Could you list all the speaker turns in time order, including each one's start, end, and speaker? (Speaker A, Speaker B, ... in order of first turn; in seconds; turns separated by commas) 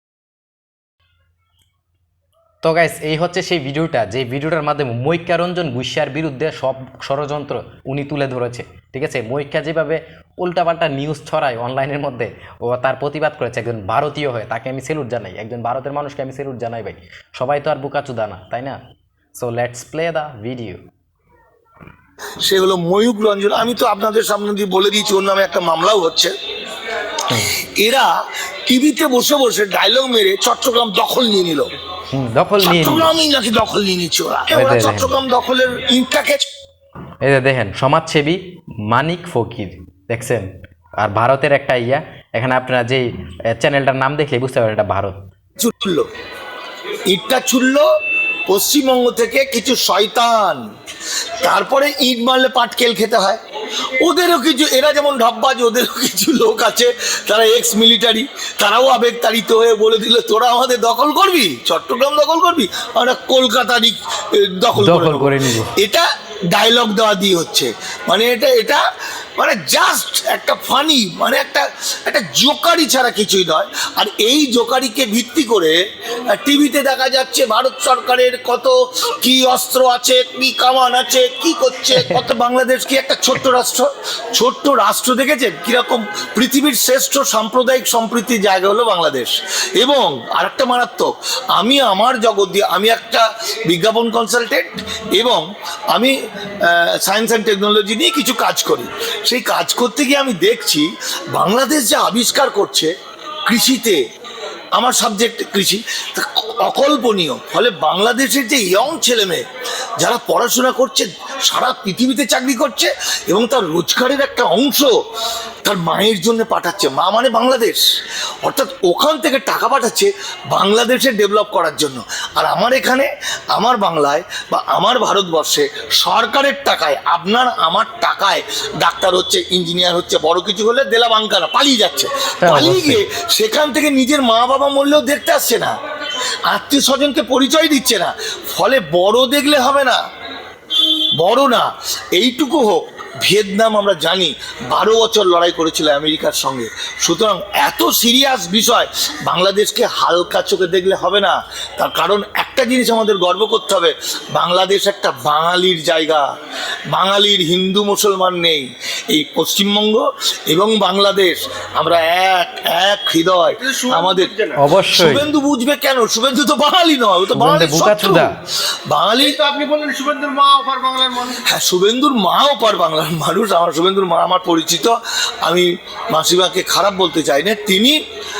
Speaker A: 2.6-18.8, Speaker A: 19.4-20.8, Speaker B: 22.4-26.3, Speaker A: 27.3-27.5, Speaker B: 27.3-28.1, Speaker B: 28.7-31.7, Speaker A: 32.1-33.1, Speaker B: 32.6-36.5, Speaker A: 34.5-35.2, Speaker A: 37.2-40.5, Speaker A: 41.0-45.2, Speaker B: 45.6-46.1, Speaker B: 47.1-47.9, Speaker B: 48.5-50.6, Speaker B: 51.4-53.4, Speaker B: 54.0-68.8, Speaker A: 64.8-65.7, Speaker B: 69.4-75.8, Speaker B: 76.3-102.9, Speaker B: 103.5-104.0, Speaker B: 104.8-109.4, Speaker B: 110.0-115.0, Speaker B: 115.7-117.8, Speaker B: 118.4-135.8, Speaker A: 132.4-133.0, Speaker B: 136.5-140.0, Speaker B: 141.2-156.3, Speaker B: 156.9-168.3, Speaker C: 163.7-164.6, Speaker A: 164.6-165.3, Speaker A: 167.3-168.3, Speaker B: 168.9-169.4, Speaker C: 169.3-171.4, Speaker B: 171.3-178.0